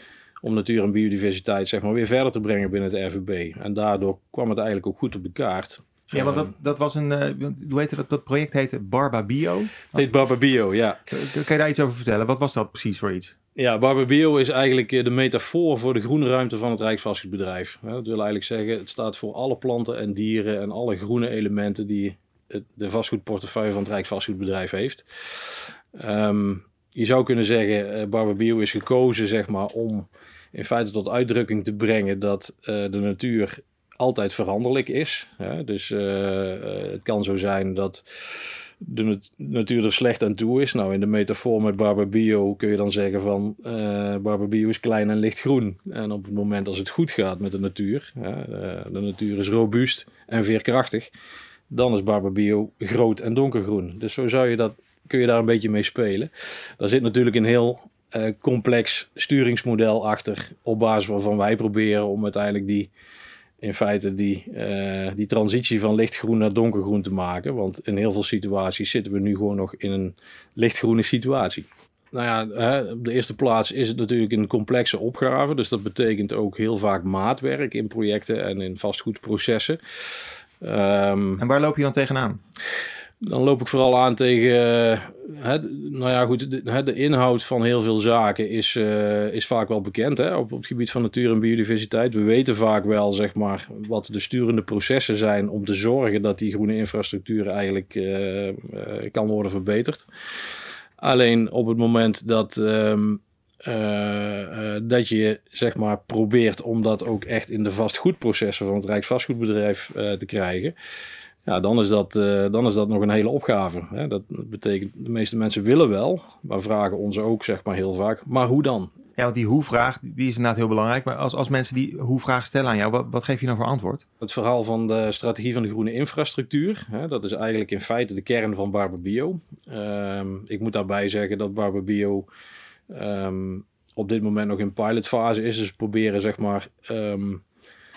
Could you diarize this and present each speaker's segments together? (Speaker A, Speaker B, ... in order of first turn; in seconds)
Speaker A: 0.4-6.5, 9.9-11.1, 13.6-51.1, 51.7-62.9, 63.6-81.4, 83.2-100.1, 101.0-110.7, 111.4-118.9, 124.2-132.2, 132.9-137.4
Speaker B: 6.1-10.2, 11.1-13.3, 81.4-82.4, 119.2-124.0